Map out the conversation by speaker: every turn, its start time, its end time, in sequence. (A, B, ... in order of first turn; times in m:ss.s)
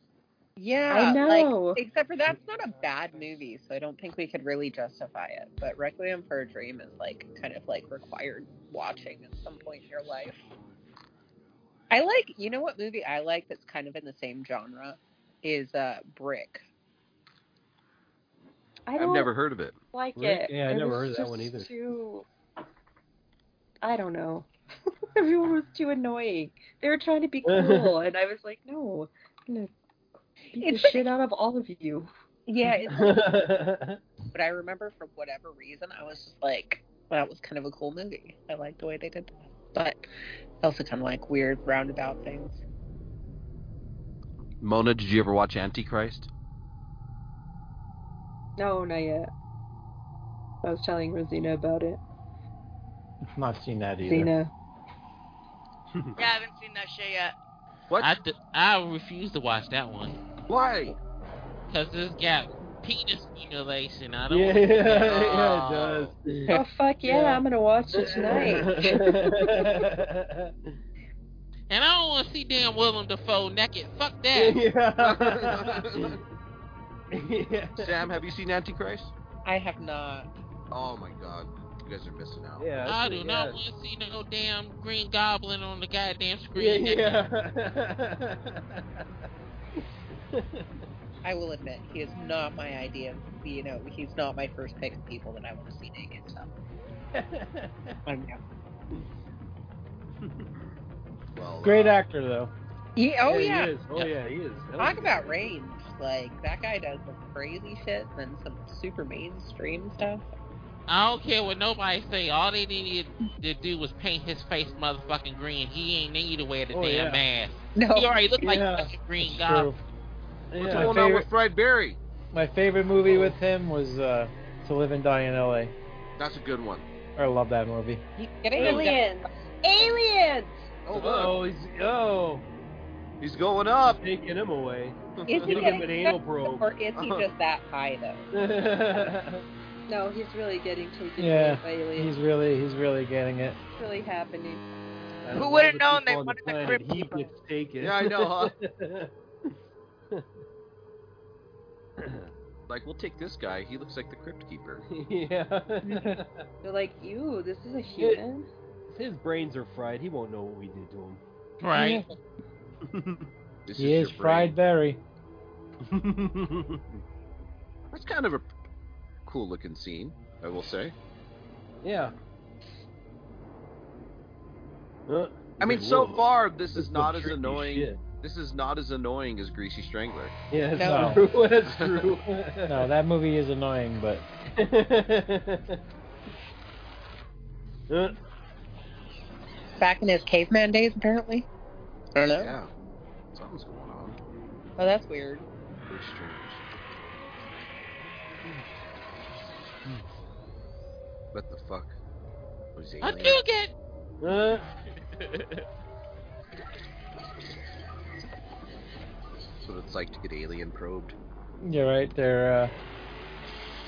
0:00.6-0:10.4 A
0:00.9-0:01.8 B
0:11.9-0:16.6 A
0:18.9-0:19.3 B
0:19.0-0:19.8 C
0:19.9-0:22.3 B
0:20.2-0:21.7 D
0:23.8-0:24.5 B
0:25.1-0:29.7 B
0:27.4-0:28.0 D
0:30.5-0:32.1 B
0:30.6-0:31.0 A
0:32.5-0:33.2 A
0:32.9-0:34.0 D
0:34.3-0:40.0 A
0:40.6-0:42.6 A
0:44.6-0:46.3 C
0:48.6-0:49.3 B
0:50.6-0:52.0 B
0:53.3-0:54.3 E
0:54.0-0:54.5 B
0:55.9-0:56.2 D
0:56.2-0:57.3 F
0:58.0-1:00.2 G
1:00.5-1:01.0 C
1:01.7-1:05.7 G
1:04.3-1:10.8 D
1:05.2-1:06.1 C
1:06.5-1:09.6 B
1:08.5-1:09.0 A
1:11.7-1:14.6 G
1:14.3-1:16.2 D
1:15.0-1:16.2 C
1:17.1-1:18.0 D
1:17.8-1:19.1 C
1:19.4-1:20.3 A
1:20.7-1:22.7 C
1:22.6-1:23.6 D
1:22.8-1:27.2 G
1:26.5-1:29.0 D
1:30.3-1:30.7 D
1:31.2-1:36.5 A
1:37.1-1:38.0 D
1:38.0-1:38.4 A
1:41.3-1:42.0 C
1:41.6-1:42.5 E
1:43.0-1:43.8 A
1:43.2-1:45.5 D
1:44.8-1:50.2 A
1:50.9-1:59.7 G
1:56.7-1:57.2 D
1:57.8-1:58.6 A
1:58.4-1:58.9 D
1:59.2-1:59.8 E
2:00.5-2:01.0 D
2:00.6-2:02.0 C
2:00.6-2:01.3 E
2:02.3-2:05.7 E
2:03.0-2:03.4 D
2:06.2-2:06.8 C
2:07.2-2:08.0 E
2:08.2-2:09.2 A
2:08.5-2:10.7 B
2:10.8-2:11.4 C
2:10.9-2:12.4 D
2:13.2-2:14.0 C
2:14.0-2:16.8 D
2:15.2-2:15.7 C
2:15.2-2:18.3 A
2:16.9-2:17.3 C
2:18.3-2:19.4 D
2:19.9-2:22.2 B
2:21.2-2:23.6 E
2:23.7-2:24.6 B
2:25.2-2:29.6 D
2:25.3-2:27.2 F
2:27.8-2:28.5 C
2:32.0-2:32.3 D
2:32.7-2:34.8 C
2:34.8-2:36.4 D
2:35.8-2:38.5 B
2:38.9-2:41.2 D
2:41.6-2:42.0 G
2:42.9-2:43.2 D
2:43.6-2:44.6 C
2:43.8-2:45.0 E
2:45.8-2:46.8 D
2:47.9-2:48.5 C
2:49.2-2:50.9 C
2:51.8-2:52.1 D
2:55.1-2:58.0 D
2:55.6-3:00.3 C
3:00.5-3:02.9 D
3:00.7-3:01.2 A
3:00.8-3:01.2 E
3:01.7-3:02.2 C
3:02.7-3:04.2 E
3:04.6-3:05.8 D
3:07.9-3:08.2 D
3:09.8-3:11.5 A
3:12.1-3:12.5 A
3:12.3-3:12.7 C
3:13.3-3:14.2 C
3:14.8-3:15.5 A
3:15.9-3:16.6 C
3:21.3-3:21.9 C
3:22.7-3:23.4 C
3:23.0-3:23.7 G
3:24.2-3:24.6 D
3:25.2-3:25.6 G
3:29.6-3:31.1 C
3:31.6-3:32.7 E